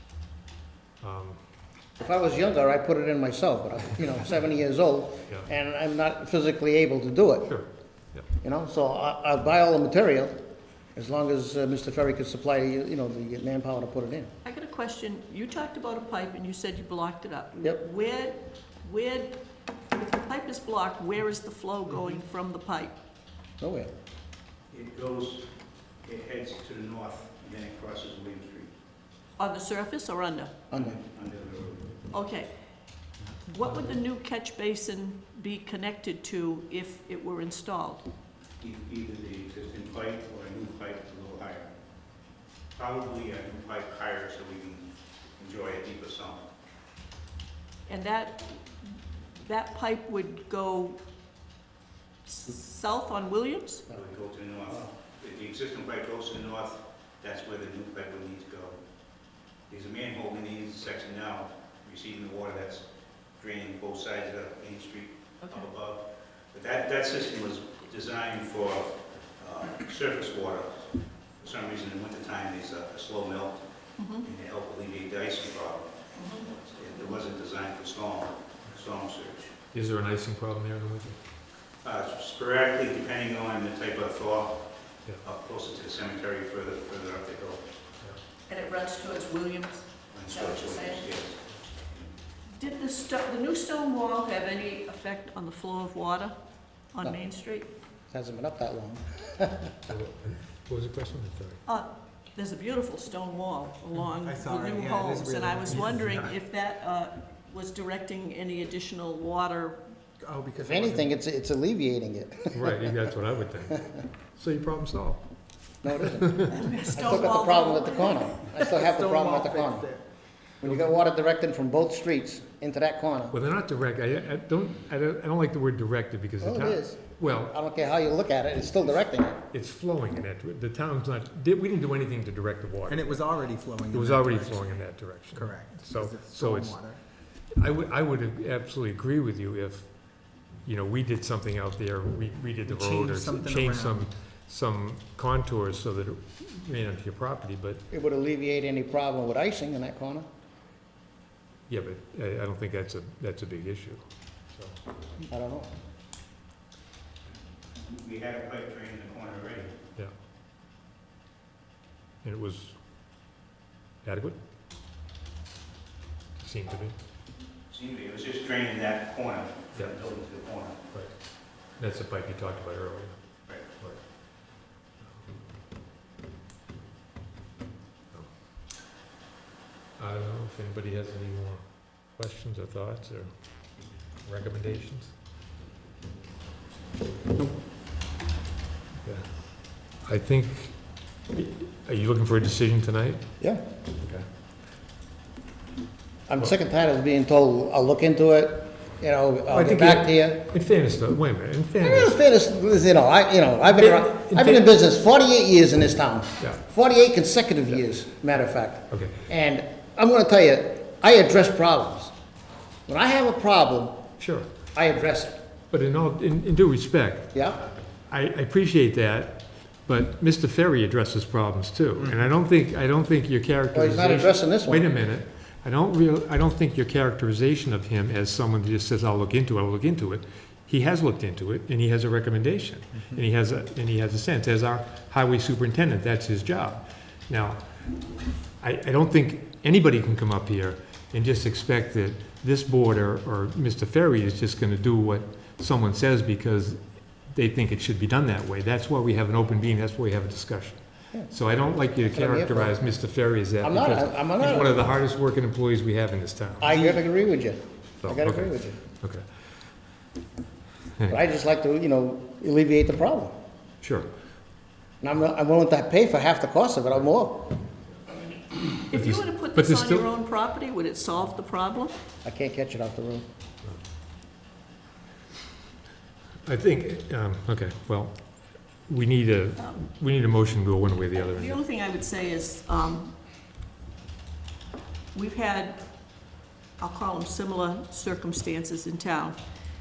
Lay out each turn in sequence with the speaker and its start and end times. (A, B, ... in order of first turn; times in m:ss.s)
0:01.0-0:01.4 A
0:02.0-0:07.5 B
0:07.4-0:08.3 A
0:08.4-0:10.4 B
0:10.9-0:14.3 B
0:14.4-0:23.0 C
0:23.6-0:23.9 B
0:24.7-0:25.5 D
0:26.0-0:28.7 D
0:29.4-0:30.6 C
0:30.7-0:31.0 B
0:30.7-0:32.0 D
0:32.1-0:32.5 C
0:33.5-0:38.1 C
0:38.6-0:41.7 D
0:42.7-0:46.4 D
0:47.9-0:51.0 C
0:52.2-0:53.9 C
0:53.9-0:58.8 D
0:59.7-1:02.8 D
1:03.4-1:13.6 D
1:05.4-1:05.7 C
1:14.0-1:14.2 C
1:14.2-1:19.5 D
1:16.1-1:17.1 C
1:19.7-1:21.2 A
1:21.8-1:24.7 D
1:25.2-1:27.6 D
1:28.5-1:31.1 C
1:30.1-1:32.1 D
1:32.5-1:36.4 C
1:36.9-1:37.7 C
1:38.1-1:39.8 B
1:39.9-1:41.6 A
1:41.6-1:49.8 C
1:44.2-1:46.1 E
1:45.8-1:46.3 A
1:50.2-1:51.1 E
1:50.6-1:52.9 B
1:52.5-1:55.2 A
1:55.8-1:59.9 B
1:56.0-1:56.6 A
1:56.5-1:58.4 C
1:58.5-2:00.0 E
2:00.6-2:00.9 E
2:00.6-2:03.3 B
2:03.3-2:07.6 A
2:06.4-2:09.4 B
2:09.5-2:13.2 A
2:12.9-2:17.0 E
2:13.9-2:16.9 A
2:17.5-2:20.0 A
2:20.6-2:27.8 A
2:22.6-2:24.0 E
2:27.9-2:30.3 B
2:31.7-2:34.8 A
2:35.3-2:35.7 B
2:37.8-2:39.8 D
2:42.2-2:42.8 A
2:44.0-2:44.4 A
2:46.4-2:46.9 A
2:47.7-2:50.8 D
2:51.8-2:53.2 A
2:53.8-2:55.4 A
3:00.0-3:03.3 A
3:04.2-3:05.1 A
3:09.0-3:13.3 A
3:14.0-3:14.2 A
3:16.3-3:20.4 B
3:19.5-3:22.2 A
3:21.8-3:32.1 B
3:23.7-3:24.7 A
3:28.9-3:29.2 A
3:32.9-3:34.0 B
3:34.2-3:34.5 A
3:34.7-3:35.4 B
3:35.7-3:57.7 A
3:37.3-3:37.6 B
3:43.7-3:44.8 B
3:58.6-4:17.0 A
4:12.1-4:12.8 B
4:13.6-4:14.9 B
4:16.6-4:18.8 B
4:18.0-4:19.3 A
4:21.0-4:21.2 A
4:21.1-4:23.3 B
4:23.8-4:24.1 A
4:25.0-4:27.6 B
4:28.9-4:31.9 C
4:28.9-4:30.1 A
4:32.2-4:33.2 B
4:36.4-4:41.6 A
4:41.3-4:43.1 C
4:45.1-4:45.8 C
4:46.8-4:49.4 C